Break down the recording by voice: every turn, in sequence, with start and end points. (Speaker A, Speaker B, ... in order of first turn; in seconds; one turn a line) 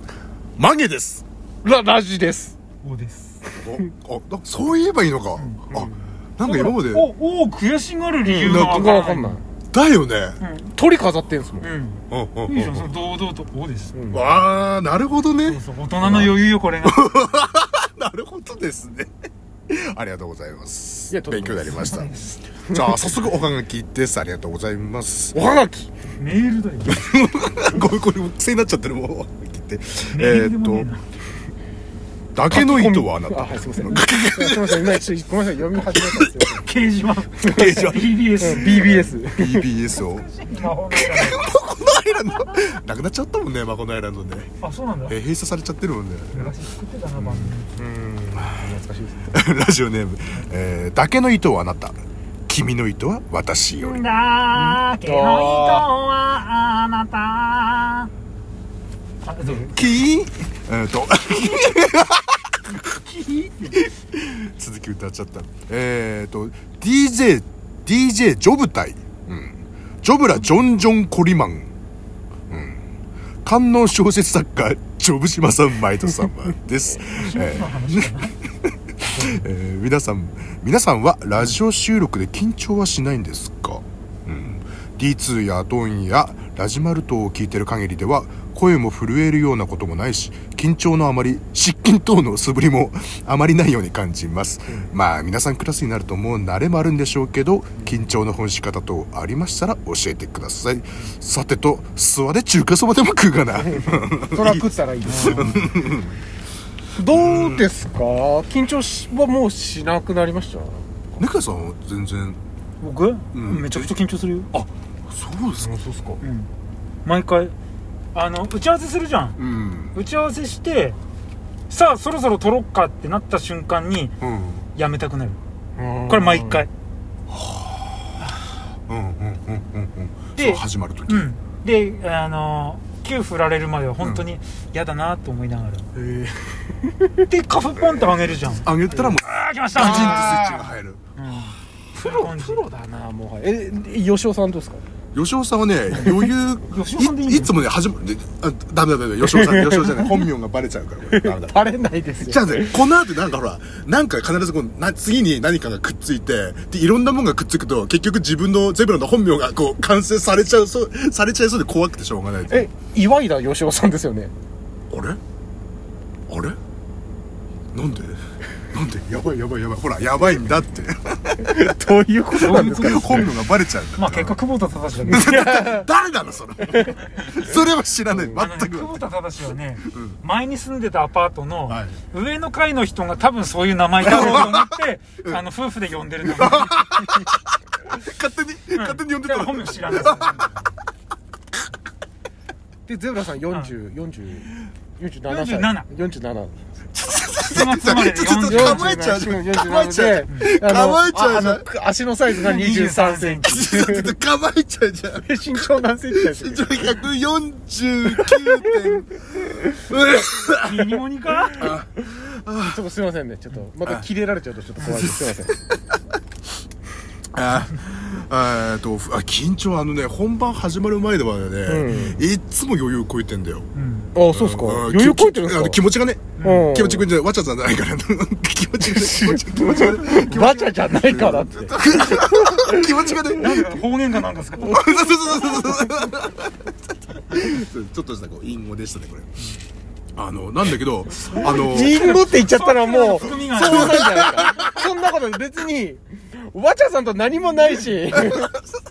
Speaker A: 0.6-1.2
Speaker B: 1.6-2.6
Speaker C: 2.8-3.4
Speaker A: 3.5-7.1
Speaker C: 5.4-5.7
Speaker B: 5.7-6.0
Speaker C: 6.4-9.4
Speaker B: 8.2-9.4
Speaker A: 8.4-8.9
Speaker A: 9.7-10.4
Speaker C: 10.4-10.7
Speaker B: 10.7-11.7
Speaker C: 11.6-13.9
Speaker A: 12.1-12.9
Speaker B: 13.9-14.3
Speaker A: 14.1-19.1
Speaker C: 15.4-17.1
Speaker A: 19.7-25.4
Speaker B: 21.1-21.7
Speaker C: 21.6-22.4
Speaker B: 25.3-26.1
Speaker C: 26.2-27.1
Speaker A: 26.9-30.9
Speaker C: 30.1-31.0
Speaker A: 32.3-35.0
Speaker B: 32.5-36.6
Speaker A: 35.9-36.3
Speaker C: 36.6-41.5
Speaker B: 37.4-37.8
Speaker A: 37.4-40.3
Speaker B: 38.4-39.6
Speaker A: 40.9-44.5
Speaker C: 44.6-45.2
Speaker A: 45.1-46.5
Speaker C: 46.3-47.7
Speaker A: 47.1-47.5
Speaker B: 47.8-49.4
Speaker A: 48.3-48.7
Speaker A: 49.3-54.0
Speaker C: 53.8-58.1
Speaker B: 54.6-55.9
Speaker C: 59.2-59.9
Speaker A: 59.5-62.6
Speaker C: 62.8-63.8
Speaker A: 63.7-71.7
Speaker A: 72.5-72.8
Speaker A: 73.4-106.2
Speaker C: 77.0-78.3
Speaker B: 103.6-105.7
Speaker C: 105.1-105.8
Speaker B: 106.9-111.2
Speaker A: 107.1-107.7
Speaker A: 111.2-112.4
Speaker C: 112.8-114.5
Speaker A: 113.3-113.9
Speaker A: 114.5-115.7
Speaker B: 115.6-116.2
Speaker C: 116.2-116.5
Speaker C: 117.0-117.5
Speaker C: 118.1-119.4
Speaker A: 119.4-120.0
Speaker C: 119.9-121.0
Speaker C: 121.7-124.1
Speaker A: 124.2-124.6
Speaker C: 124.8-125.4
Speaker B: 125.8-126.7
Speaker C: 126.1-126.7
Speaker A: 127.3-128.2
Speaker A: 128.9-131.3
Speaker C: 130.3-135.9
Speaker A: 135.9-136.5
Speaker B: 136.7-137.1
Speaker C: 137.2-142.6
Speaker A: 138.6-141.0
Speaker B: 139.8-140.6
Speaker B: 141.9-144.8
Speaker A: 145.1-151.6
Speaker C: 146.7-147.5
Speaker B: 149.3-150.1
Speaker B: 151.1-152.8
Speaker A: 152.2-162.7
Speaker B: 162.5-164.3
Speaker A: 164.9-165.2
Speaker A: 166.3-166.6
Speaker A: 167.7-171.5
Speaker B: 171.4-173.3
Speaker A: 172.3-174.4
Speaker C: 172.4-175.4
Speaker A: 175.1-179.0
Speaker B: 175.1-175.9
Speaker B: 176.7-177.0
Speaker C: 178.3-187.1
Speaker A: 181.7-182.0
Speaker A: 184.0-184.7
Speaker A: 186.2-187.4
Speaker A: 187.9-190.5
Speaker C: 188.7-190.6
Speaker B: 192.8-196.5
Speaker C: 195.3-195.9
Speaker A: 196.9-201.6
Speaker C: 197.2-199.0
Speaker B: 198.4-204.1
Speaker C: 202.3-203.6
Speaker A: 203.4-205.4
Speaker B: 205.1-206.9
Speaker A: 206.1-211.0
Speaker C: 210.6-211.7
Speaker A: 211.5-212.8
Speaker B: 212.7-215.5
Speaker C: 214.8-215.1
Speaker A: 214.8-215.8
Speaker A: 217.3-223.7
Speaker B: 221.7-222.2
Speaker C: 223.7-224.1
Speaker B: 224.1-225.8
Speaker A: 224.3-233.8
Speaker C: 226.4-226.7
Speaker B: 226.4-227.1
Speaker B: 228.8-232.9
Speaker C: 233.3-235.6
Speaker A: 234.6-239.4
Speaker A: 240.1-242.1
Speaker C: 241.2-244.3
Speaker B: 241.3-248.5
Speaker A: 243.6-244.8